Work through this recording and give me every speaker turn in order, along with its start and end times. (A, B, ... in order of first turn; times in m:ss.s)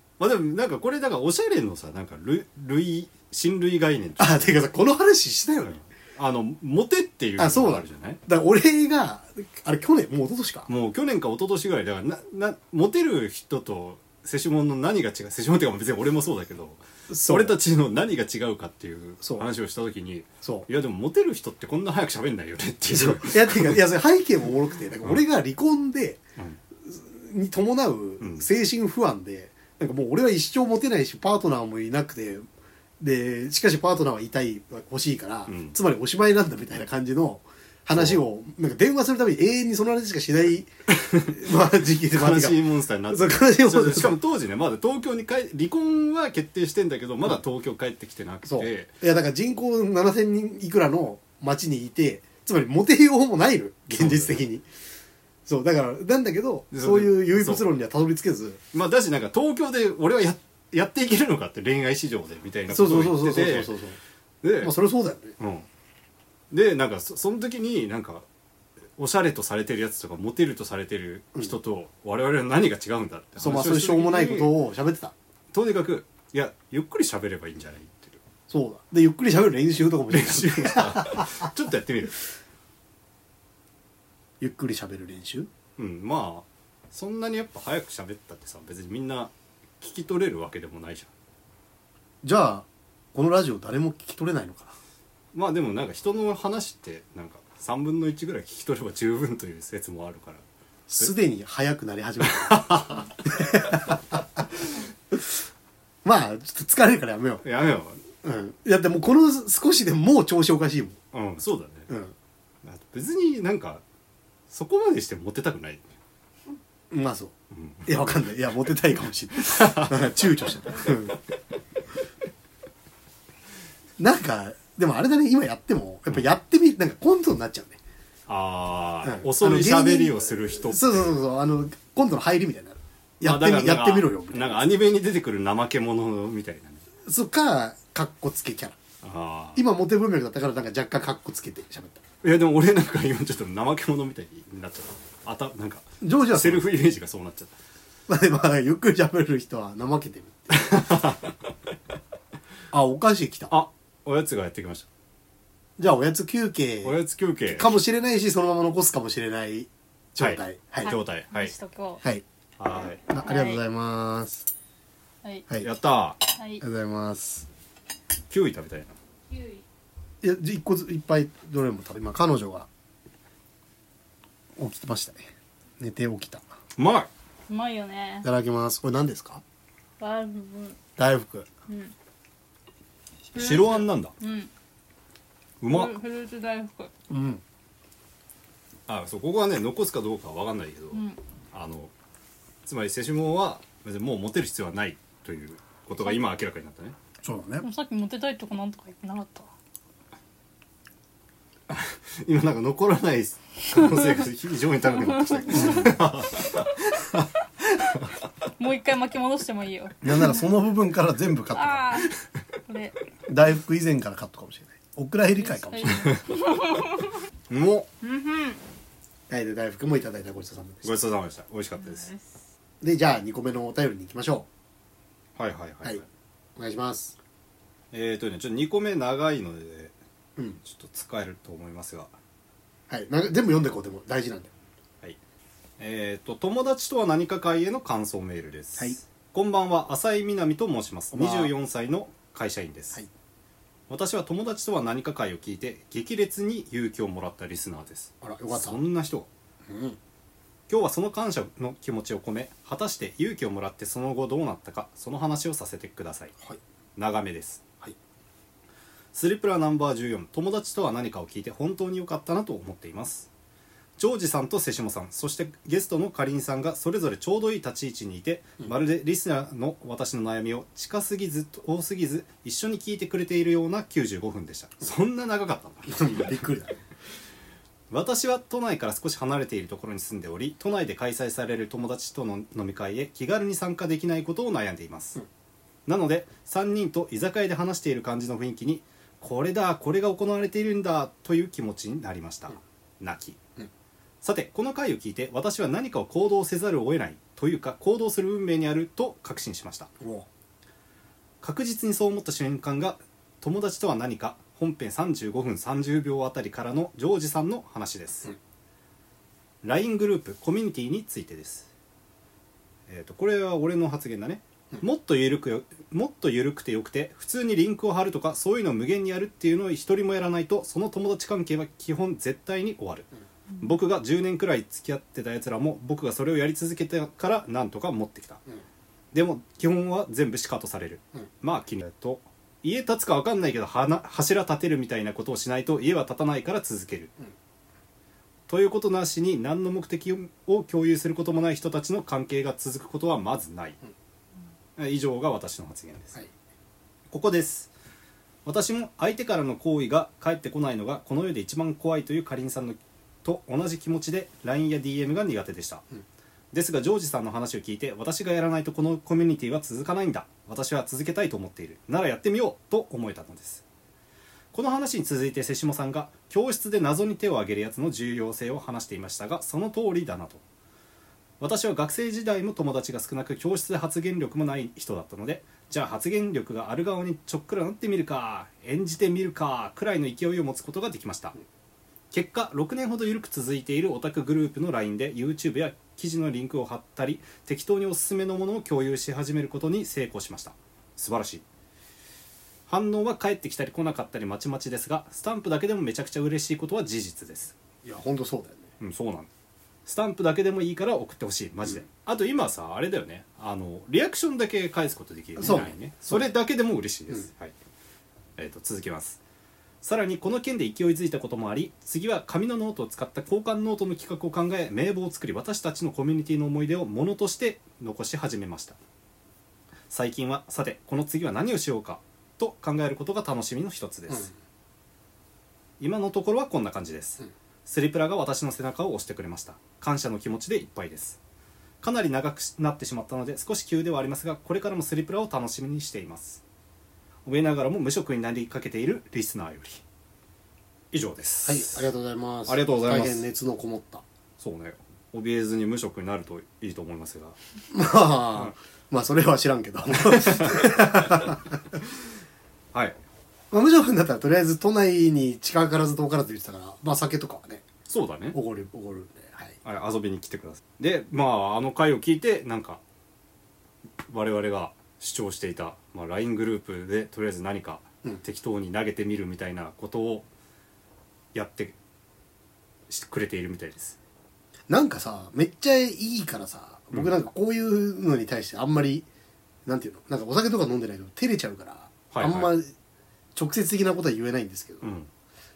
0:00.2-0:04.6 A
0:04.2-0:05.8 B
0:05.6-0:08.2 A
0:07.4-0:10.7 B
0:10.7-0:23.8 A
0:17.1-0:17.6 B
0:19.2-0:19.5 B
0:20.4-0:20.7 B
0:22.9-0:26.2 B
0:26.8-0:32.5 B
0:28.2-0:28.5 A
0:33.0-0:40.7 B
0:35.5-0:35.8 A
0:37.9-0:38.2 A
0:40.9-0:48.9 A
0:41.3-0:44.2 B
0:48.5-0:54.7 B
0:54.0-0:54.4 A
0:55.5-0:58.6 B
0:56.7-0:57.7 A
0:58.7-1:03.7 A
1:02.7-1:04.0 B
1:04.4-1:04.7 A
1:04.6-1:05.4 B
1:05.4-1:05.7 A
1:06.5-1:08.2 A
1:09.0-1:14.5 A
1:13.4-1:15.1 B
1:15.5-1:18.2 A
1:18.5-1:21.5 B
1:20.1-1:22.2 A
1:24.4-1:25.5 B
1:25.8-1:31.1 A
1:32.2-1:34.8 B
1:35.3-1:40.4 A
1:40.9-1:44.4 B
1:42.3-1:43.1 A
1:46.0-1:47.4 B
1:47.4-1:48.0 A
1:48.2-1:51.0 B
1:51.1-1:51.9 A
1:51.9-1:52.1 B
1:52.6-1:53.8 A
1:54.5-1:55.9 A
1:56.9-1:57.3 B
1:57.5-1:58.1 A
1:57.9-2:01.2 B
1:59.4-2:00.2 A
2:04.0-2:07.8 B
2:08.3-2:11.2 A
2:09.0-2:14.7 B
2:13.2-2:16.8 A
2:17.0-2:18.8 B
2:19.0-2:19.6 A
2:19.6-2:22.0 B
2:22.2-2:27.5 A
2:26.0-2:26.7 B
2:28.1-2:30.7 B
2:30.5-2:31.4 A
2:32.7-2:33.5 B
2:33.5-2:34.9 A
2:35.8-2:37.0 B
2:36.8-2:37.7 A
2:37.5-2:40.9 B
2:40.2-2:41.5 A
2:40.8-2:42.0 C
2:42.6-2:43.0 A
2:43.1-2:44.5 B
2:43.2-2:43.6 C
2:45.6-2:46.2 A
2:46.3-2:46.6 C
2:46.6-2:47.5 B
2:48.3-2:49.0 A
2:49.3-2:49.6 C
2:50.2-2:52.7 B
2:54.6-2:55.2 B
2:55.8-2:56.4 B
2:56.8-2:57.1 A
2:57.5-2:58.3 C
2:58.2-2:59.4 B
3:00.0-3:00.8 C
3:01.0-3:01.5 B
3:01.7-3:01.9 C
3:03.3-3:04.5 C
3:03.4-3:04.1 A
3:05.6-3:06.0 A
3:05.7-3:06.9 C
3:07.1-3:07.4 B
3:08.9-3:11.9 A
3:10.9-3:11.2 C
3:12.7-3:17.0 A
3:17.2-3:17.7 B
3:17.6-3:19.5 C
3:21.7-3:28.2 A
3:25.1-3:25.9 C
3:25.5-3:25.9 B
3:28.6-3:30.4 C
3:30.0-3:32.1 B
3:31.5-3:32.1 C
3:32.7-3:33.0 C
3:33.3-3:36.1 B
3:35.4-3:37.2 C
3:37.5-3:37.9 A
3:38.0-3:38.6 C
3:39.3-3:40.9 B
3:40.8-3:42.1 A
3:41.8-3:42.4 C
3:42.8-3:44.5 B
3:45.4-3:46.1 A
3:46.6-3:47.2 B
3:47.9-3:49.9 A
3:50.6-3:52.1 A
3:52.9-3:54.5 B
3:55.8-4:03.0 A
4:01.1-4:01.5 B
4:03.9-4:09.3 A
4:08.2-4:08.8 B
4:09.7-4:10.0 B
4:10.7-4:16.3 A
4:17.0-4:17.6 A
4:19.1-4:23.3 A
4:24.0-4:36.3 A
4:35.9-4:36.8 B
4:37.9-4:45.2 A
4:45.9-4:53.4 A
4:54.2-4:59.9 A
5:00.0-5:00.3 B
5:01.4-5:08.3 A
5:09.6-5:11.7 A
5:12.9-5:23.1 A
5:23.6-5:28.4 A
5:29.1-5:37.1 A
5:38.5-5:43.8 A
5:44.8-5:46.2 A
5:47.1-5:47.7 A
5:48.4-5:55.8 A
5:56.5-6:03.6 A
6:04.5-6:10.4 A
6:11.4-6:21.4 A
6:22.1-6:31.4 A
6:32.7-6:37.6 A
6:37.8-6:38.7 B
6:38.8-6:39.3 A
6:39.9-6:47.5 A
6:45.4-6:46.3 B
6:48.4-6:49.2 A
6:49.8-6:58.8 A
6:59.9-7:04.3 A
7:05.8-7:11.2 A
7:11.8-7:16.4 A
7:17.2-7:19.8 A
7:20.9-7:21.9 A
7:21.4-7:24.0 B
7:22.5-7:23.3 A
7:24.4-7:27.4 A
7:27.7-7:31.8 B
7:30.1-7:30.7 A
7:33.5-7:37.6 B
7:37.9-7:38.4 A
7:38.3-7:39.6 B
7:39.6-7:42.8 A
7:44.1-7:50.3 A
7:51.3-7:51.8 A
7:52.9-7:54.0 A
7:54.7-7:59.1 B
7:59.7-8:02.7 B
8:02.1-8:02.5 A
8:03.4-8:04.9 B
8:04.8-8:05.1 A